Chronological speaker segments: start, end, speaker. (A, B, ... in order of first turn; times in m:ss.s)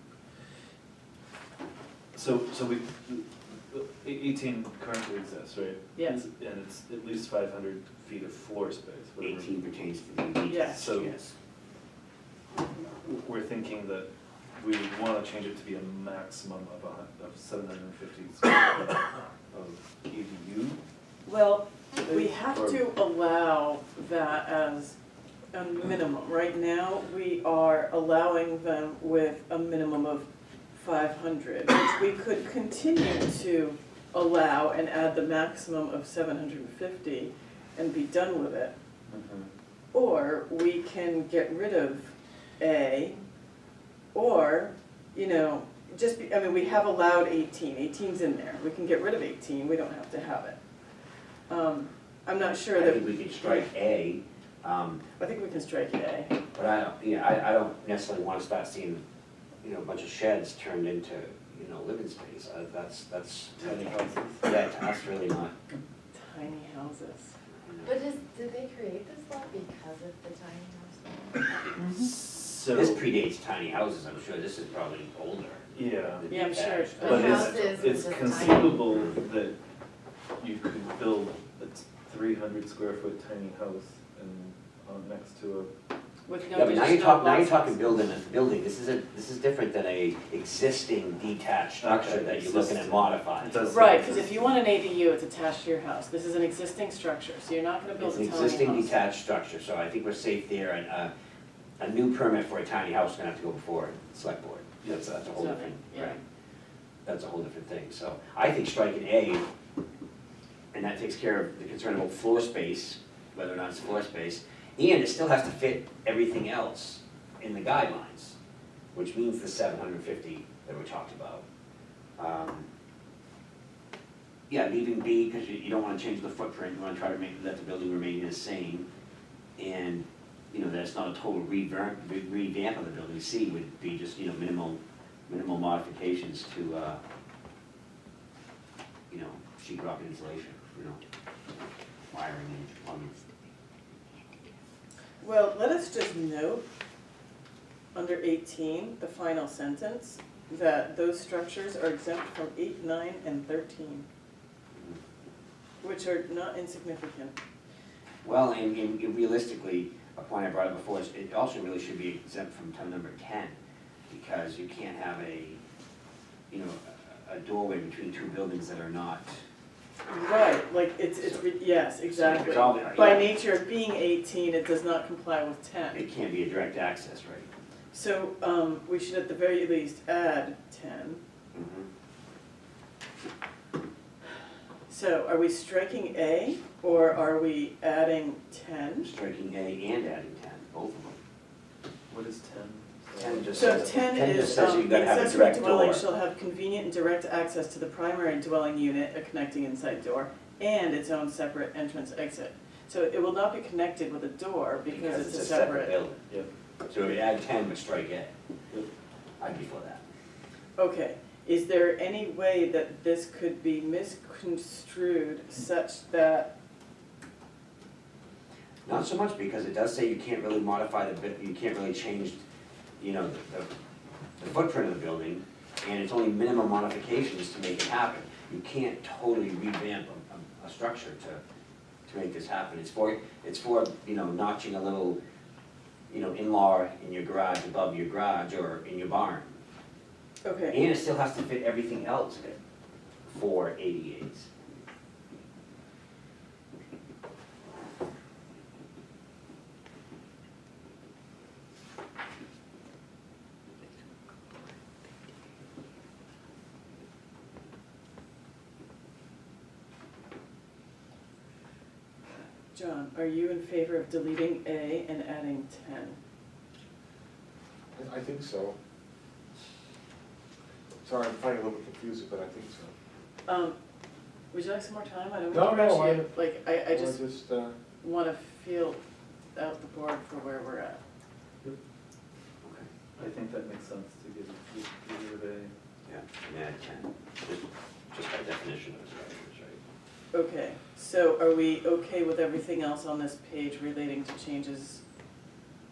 0:02.1-0:09.5 A
0:05.9-0:06.2 B
0:09.2-0:11.3 C
0:10.5-0:10.8 B
0:10.7-0:11.1 A
0:12.8-0:20.8 A
0:21.2-0:25.0 B
0:22.0-0:22.8 A
0:25.5-0:38.7 B
0:39.1-0:39.5 A
0:39.9-0:43.2 B
0:44.1-0:50.6 B
0:51.5-0:53.7 B
0:52.8-0:55.0 C
0:55.2-0:56.3 B
0:56.5-0:59.0 C
0:59.6-1:05.5 C
1:03.6-1:04.4 A
1:06.1-1:07.3 B
1:07.6-1:08.0 C
1:07.8-1:11.6 D
1:11.8-1:13.0 A
1:12.7-1:18.1 C
1:15.7-1:16.3 A
1:16.3-1:17.6 B
1:17.0-1:19.6 A
1:17.0-1:18.9 D
1:20.4-1:25.7 A
1:26.2-1:28.0 B
1:26.5-1:33.8 C
1:31.8-1:34.5 A
1:33.7-1:38.9 B
1:37.9-1:41.1 C
1:41.8-1:46.2 C
1:44.8-1:45.1 A
1:45.3-1:46.2 B
1:47.0-1:49.4 C
1:50.7-1:58.4 C
1:58.9-2:01.4 C
2:02.2-2:02.7 C
2:04.5-2:08.9 C
2:09.6-2:17.0 C
2:19.1-2:21.0 C
2:22.1-2:23.2 C
2:25.2-2:26.6 B
2:27.9-2:34.0 B
2:35.8-2:37.4 B
2:38.2-2:43.6 C
2:44.1-2:45.6 C
2:46.5-2:49.4 C
2:50.1-2:56.0 B
2:51.2-2:51.4 C
2:52.0-2:53.3 C
2:55.9-2:57.5 C
2:57.9-3:01.2 B
3:01.5-3:01.9 C
3:04.9-3:09.1 B
3:09.0-3:11.2 C
3:12.1-3:14.0 A
3:13.2-3:16.0 C
3:13.5-3:26.0 B
3:24.9-3:26.2 C
3:26.8-3:28.3 C
3:29.4-3:30.0 C
3:30.8-3:36.5 B
3:38.8-3:42.4 C
3:43.0-3:43.7 C
3:44.4-3:51.4 C
3:52.0-3:55.2 C
3:56.1-3:59.5 C
4:00.4-4:00.8 B
4:00.7-4:02.6 C
4:03.2-4:04.5 C
4:22.7-4:26.2 B
4:27.9-4:28.8 E
4:31.0-4:32.9 E
4:33.4-4:33.8 B
4:34.5-4:37.2 B
4:35.5-4:36.3 E
4:36.8-4:37.7 E
4:38.0-4:39.0 B
4:39.5-4:41.0 B
4:42.6-4:42.9 C
4:43.2-4:45.7 A
4:46.0-4:49.8 C
4:50.3-4:55.0 B